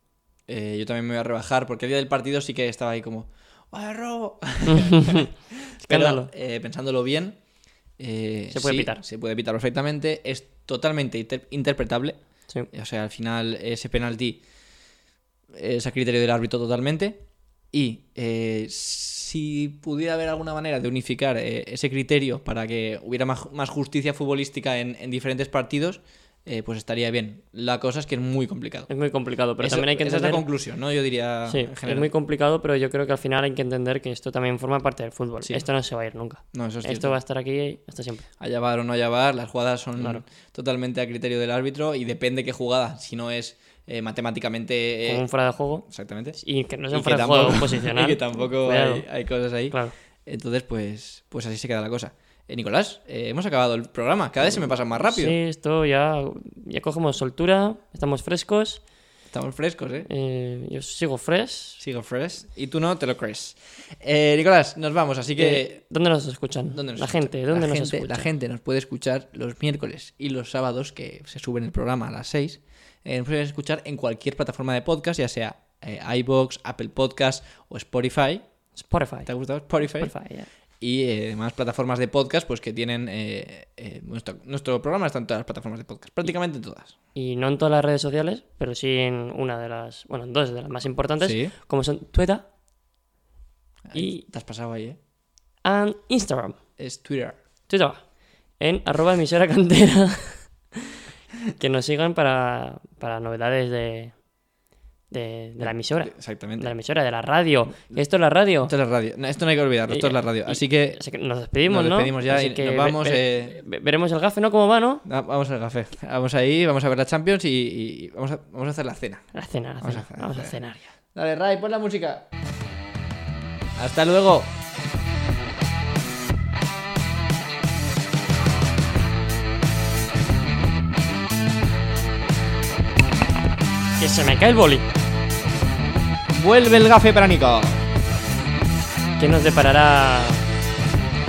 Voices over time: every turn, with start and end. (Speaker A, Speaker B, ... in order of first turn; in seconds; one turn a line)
Speaker A: 0.5-7.4
Speaker B: 4.7-5.3
Speaker B: 5.8-6.3
Speaker A: 8.0-12.2
Speaker B: 8.5-9.0
Speaker A: 12.7-14.4
Speaker A: 15.6-28.9
Speaker B: 28.9-30.4
Speaker A: 29.6-32.1
Speaker B: 31.5-38.3
Speaker A: 36.5-37.2
Speaker A: 38.4-46.4
Speaker B: 40.0-40.2
Speaker B: 45.0-49.1
Speaker A: 46.9-55.4
Speaker B: 54.5-58.8
Speaker A: 59.3-60.1
Speaker B: 60.1-61.8
Speaker A: 61.8-65.8
Speaker B: 65.4-68.3
Speaker A: 66.7-78.5
Speaker B: 78.8-80.5
Speaker A: 79.3-80.1
Speaker A: 80.8-87.0
Speaker B: 87.2-92.5
Speaker A: 91.2-91.5
Speaker A: 93.9-95.0
Speaker B: 94.0-94.2
Speaker B: 95.6-96.6
Speaker A: 96.8-97.4
Speaker B: 97.7-98.0
Speaker B: 98.6-100.5
Speaker B: 101.6-104.1
Speaker B: 105.1-108.7
Speaker A: 105.6-106.7
Speaker A: 108.7-111.0
Speaker B: 109.9-115.0
Speaker A: 111.7-113.6
Speaker A: 115.0-120.5
Speaker B: 119.3-120.9
Speaker A: 121.1-122.2
Speaker A: 123.8-124.5
Speaker B: 134.0-134.9
Speaker A: 136.3-137.8
Speaker B: 139.2-140.4